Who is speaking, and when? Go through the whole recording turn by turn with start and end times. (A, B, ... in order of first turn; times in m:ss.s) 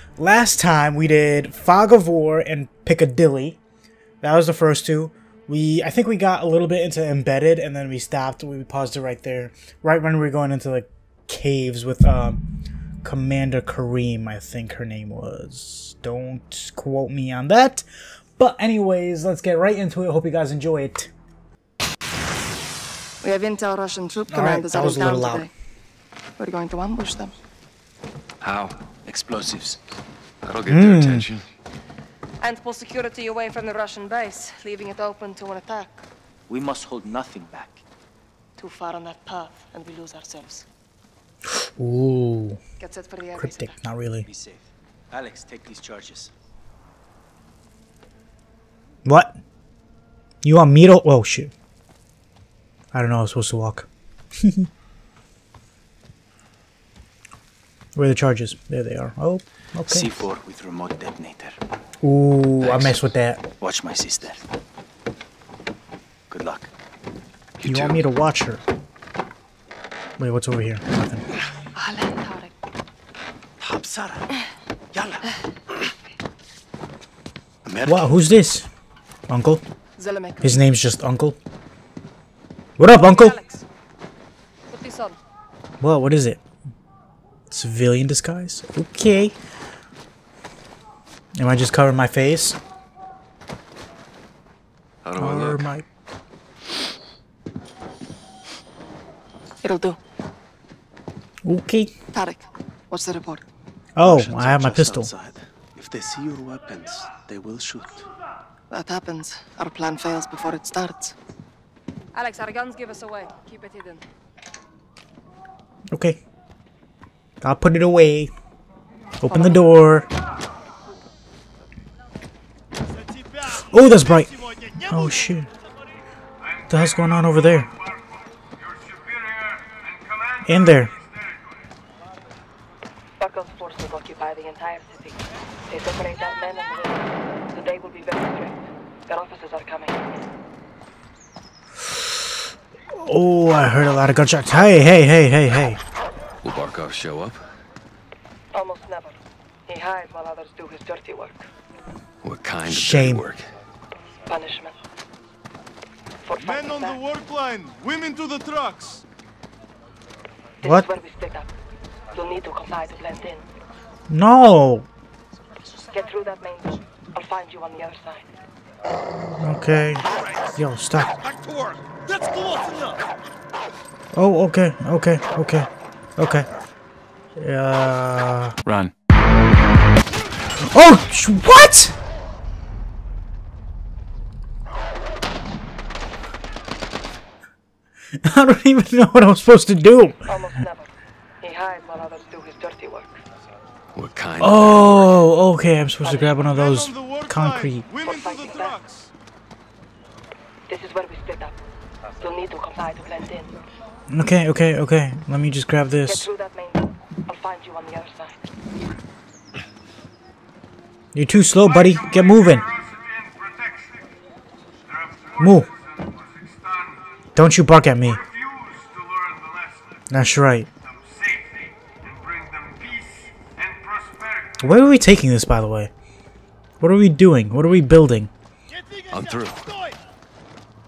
0:00.2-0:03.6 A
0:04.2-0:12.4 A
0:13.0-0:17.9 A
0:18.4-0:21.1 A
0:23.2-0:25.5 B
0:24.3-0:25.5 A
0:26.4-0:27.4 B
0:28.4-0:28.8 C
0:29.0-0:29.8 D
0:30.4-0:31.4 C
0:30.7-0:31.3 A
0:32.4-0:36.0 B
0:36.5-0:37.8 D
0:38.6-0:40.7 B
0:41.5-0:42.6 A
0:42.8-0:43.8 B
0:43.4-0:44.3 A
0:44.2-0:46.3 D
0:49.0-0:49.4 A
0:50.4-0:51.5 A
0:52.9-0:53.9 A
0:54.4-0:54.7 A
0:57.9-1:00.3 A
0:59.9-1:01.6 D
1:02.0-1:03.4 A
1:02.6-1:03.1 D
1:03.6-1:04.4 D
1:06.3-1:06.7 D
1:07.6-1:08.0 C
1:07.6-1:08.6 A
1:10.2-1:11.2 A
1:11.7-1:12.5 B
1:13.6-1:14.2 D
1:14.9-1:15.2 D
1:17.7-1:17.9 D
1:17.8-1:18.7 A
1:19.3-1:19.6 A
1:20.0-1:20.6 B
1:20.4-1:21.4 A
1:22.8-1:23.4 A
1:23.0-1:23.6 B
1:24.7-1:25.2 B
1:25.8-1:26.4 A
1:27.5-1:29.3 A
1:31.4-1:32.6 A
1:35.0-1:35.7 C
1:35.2-1:35.8 A
1:39.6-1:40.0 B
1:41.4-1:41.9 A
1:42.1-1:43.4 B
1:44.0-1:45.1 A
1:44.0-1:48.1 D
1:48.7-1:51.2 B
1:52.1-1:54.0 B
1:55.9-1:56.2 A
1:57.4-1:58.3 A
1:59.2-2:00.1 A
1:59.3-1:59.7 B
2:03.1-2:03.6 E
2:03.6-2:05.5 A
2:04.2-2:05.1 E
2:06.7-2:07.7 A
2:10.4-2:10.9 A
2:13.2-2:20.0 B
2:21.8-2:22.3 A
2:22.9-2:25.8 A
2:26.4-2:27.4 C
2:28.5-2:31.5 B
2:32.2-2:33.5 C
2:32.7-2:33.2 A
2:34.3-2:34.8 B
2:36.2-2:37.0 B
2:36.4-2:39.0 E
2:40.6-2:41.5 B
2:42.1-2:43.4 B
2:44.1-2:44.9 A
2:45.9-2:48.3 B
2:49.4-2:50.0 A
2:50.0-2:53.0 E
2:50.6-2:51.1 A
2:54.1-2:56.5 A
2:57.4-2:58.6 A
3:00.6-3:01.9 A
3:08.2-3:10.3 A
3:10.2-3:10.9 B
3:11.4-3:13.2 B
3:14.0-3:15.2 C
3:14.4-3:17.8 A
3:16.0-3:16.3 B
3:16.2-3:19.1 E
3:18.0-3:18.8 B
3:20.7-3:21.6 B
3:22.2-3:23.5 B
3:24.1-3:26.3 A
3:26.1-3:28.4 B
3:31.1-3:32.8 A
3:35.4-3:35.7 A
3:37.4-3:38.2 A
3:40.1-3:40.7 A
3:44.6-3:45.9 A
3:46.8-3:48.3 A
3:48.7-3:50.0 E
3:49.1-3:49.7 C